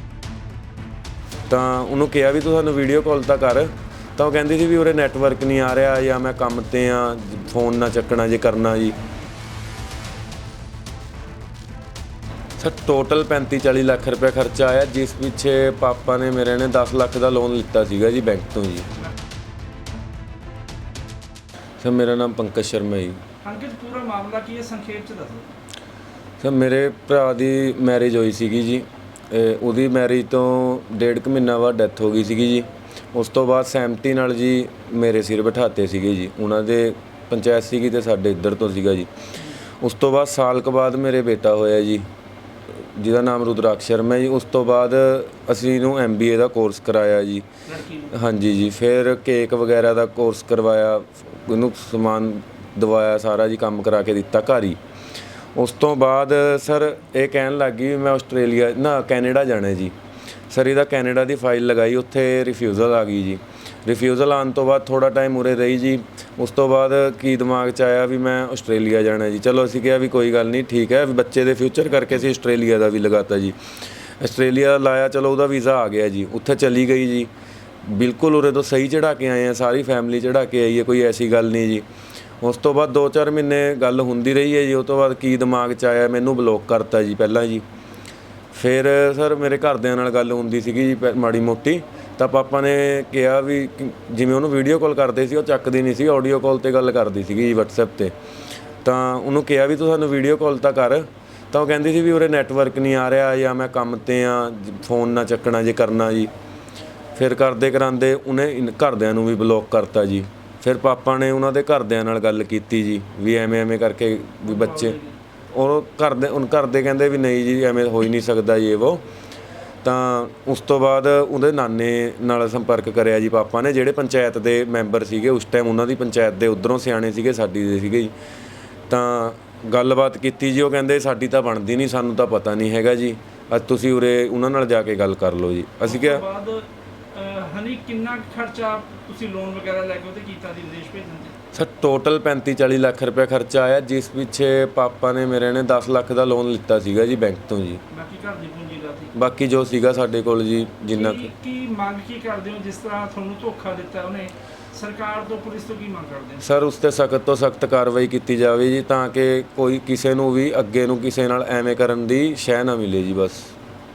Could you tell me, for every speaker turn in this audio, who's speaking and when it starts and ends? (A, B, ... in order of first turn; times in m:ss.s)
0:01.5-0:09.0 A
0:12.6-0:18.9 A
0:21.8-0:23.2 A
0:23.4-0:25.5 B
0:26.4-0:39.1 A
0:39.7-0:42.0 A
0:42.8-0:47.5 A
0:47.7-0:48.1 B
0:48.1-0:54.8 A
0:55.6-1:00.0 A
1:00.5-1:13.6 A
1:14.2-1:17.3 A
1:17.8-1:21.8 A
1:22.4-1:27.6 A
1:28.5-1:38.1 A
1:38.8-1:46.3 A
1:47.2-1:55.0 A
1:54.5-1:55.2 B
1:55.5-1:59.0 A
1:59.8-2:08.1 A
2:08.9-2:16.3 A
2:15.8-2:21.4 B
2:21.5-2:27.8 A
2:27.9-2:29.1 B
2:29.2-2:31.3 A
2:30.9-2:36.4 B
2:36.4-2:43.6 A